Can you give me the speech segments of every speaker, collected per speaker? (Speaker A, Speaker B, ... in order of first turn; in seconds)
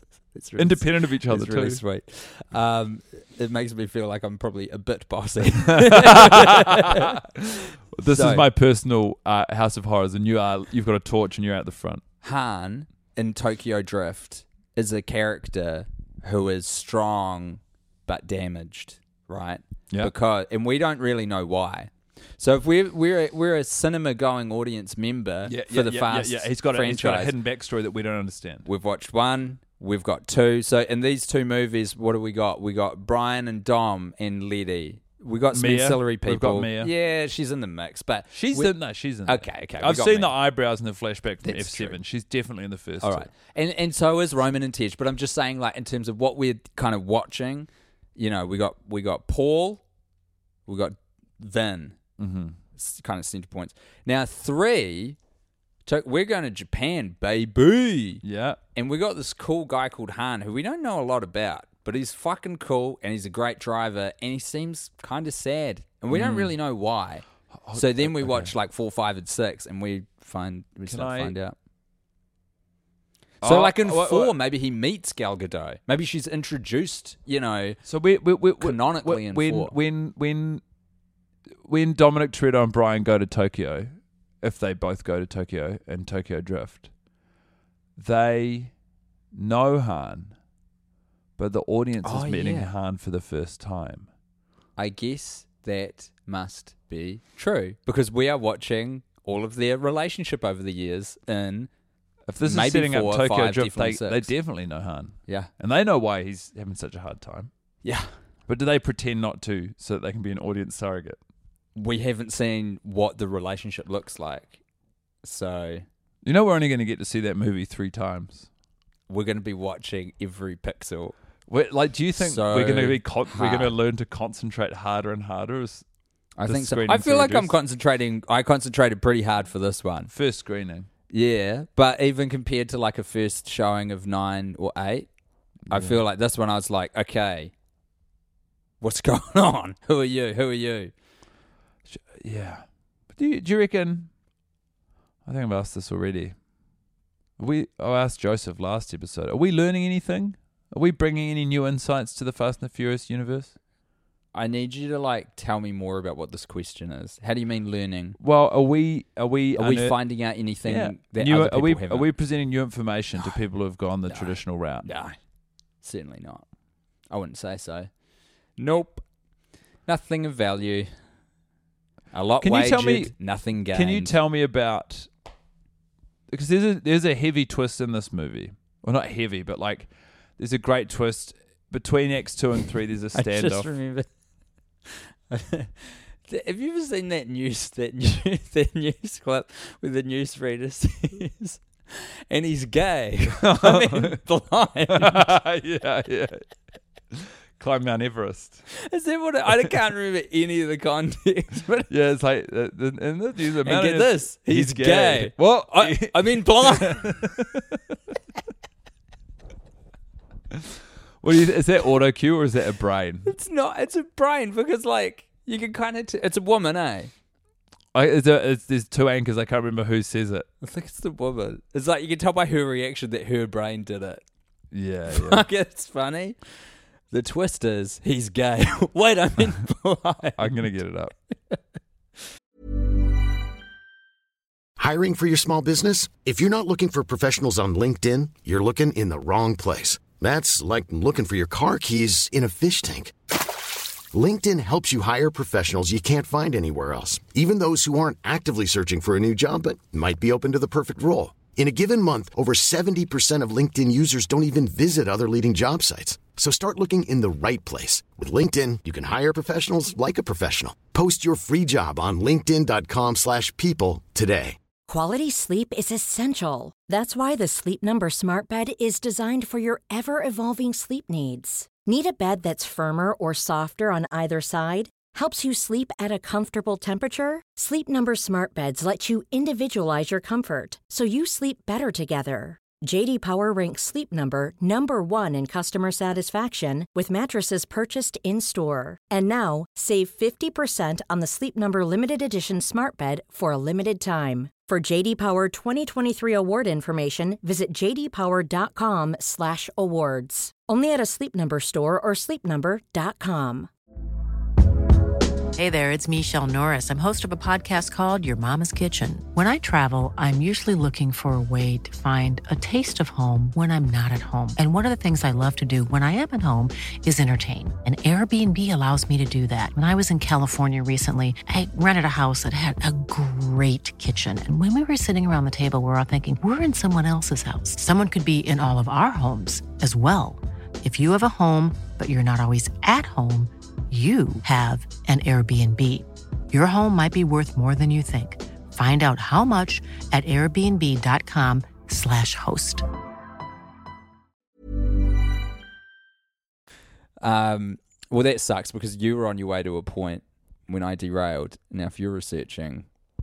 Speaker A: 0.3-7.2, 8.1-8.5, 12.2-27.3, 28.7-38.7, 39.3-40.3, 41.4-42.0, 43.0-49.8, 50.7-52.0, 52.8-55.2, 55.9-58.2, 58.8-67.2, 67.8-71.5, 73.4-77.8, 78.6-79.7, 92.0-92.7, 94.8-101.7, 102.4-104.3, 107.8-108.1, 111.8-114.6, 115.2-115.9, 119.1-121.2, 122.2-123.7, 126.4-130.1, 131.1-135.1, 135.7-137.5, 138.8-140.9, 154.3-158.2, 159.6-162.1, 164.1-165.2, 165.8-166.4, 167.1-167.9, 168.6-169.0, 169.9-170.9, 172.1-174.1, 183.2-184.1, 185.3-195.3, 198.8-201.9, 203.7-207.3, 213.3-217.1, 220.6-224.2, 225.1-226.4, 227.1-230.5, 347.2-352.9
Speaker B: 0.6-1.8, 5.7-12.0, 25.5-28.7, 35.5-36.9, 38.3-43.3, 52.2-52.6, 58.2-58.6, 66.1-66.5, 67.6-68.5, 70.9-71.3, 73.4-74.3, 77.9-80.6, 81.7-86.9, 88.0-88.7, 89.3-90.3, 91.4-94.1, 102.3-107.5, 108.5-111.2, 116.2-118.5, 121.5-125.8, 126.5-127.5, 130.1-130.9, 135.7-136.0, 141.9-142.6, 143.2-144.1, 145.3-146.3, 147.4-153.5, 158.2-160.0, 160.7-164.9, 172.4-173.1, 173.7-175.1, 176.3-183.7, 193.4-194.2, 194.9-196.4, 197.1-198.6, 201.9-207.8, 211.2-213.3, 217.9-220.5, 224.7-225.4, 230.4-231.1
Speaker C: 234.8-243.2, 244.1-264.6
Speaker D: 264.9-303.7
Speaker E: 305.6-342.9